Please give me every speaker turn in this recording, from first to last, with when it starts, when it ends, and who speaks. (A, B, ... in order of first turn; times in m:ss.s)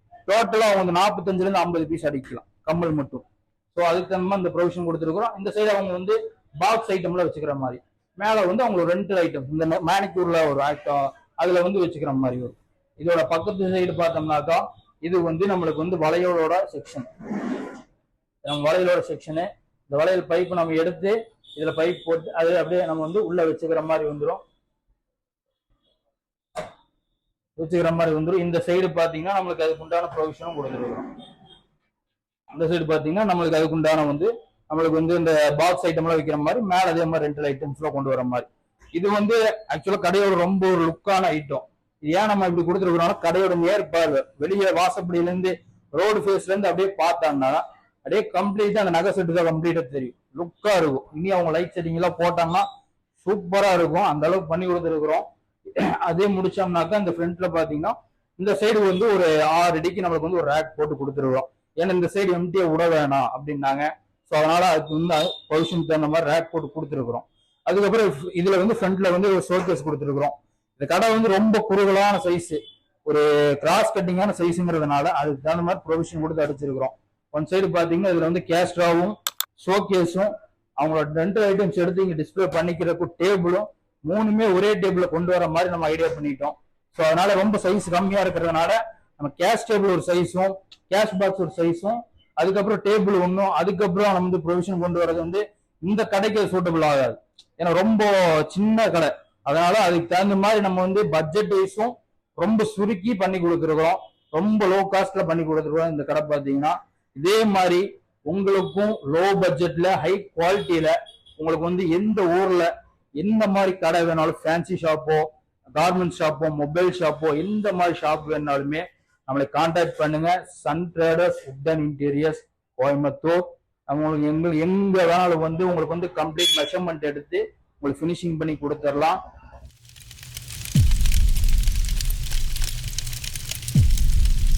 0:00.3-0:17.6 A
0:18.4-0:24.4 A
0:27.6-0:31.1 A
0:32.5-0:52.7 A
0:53.2-2:09.2 A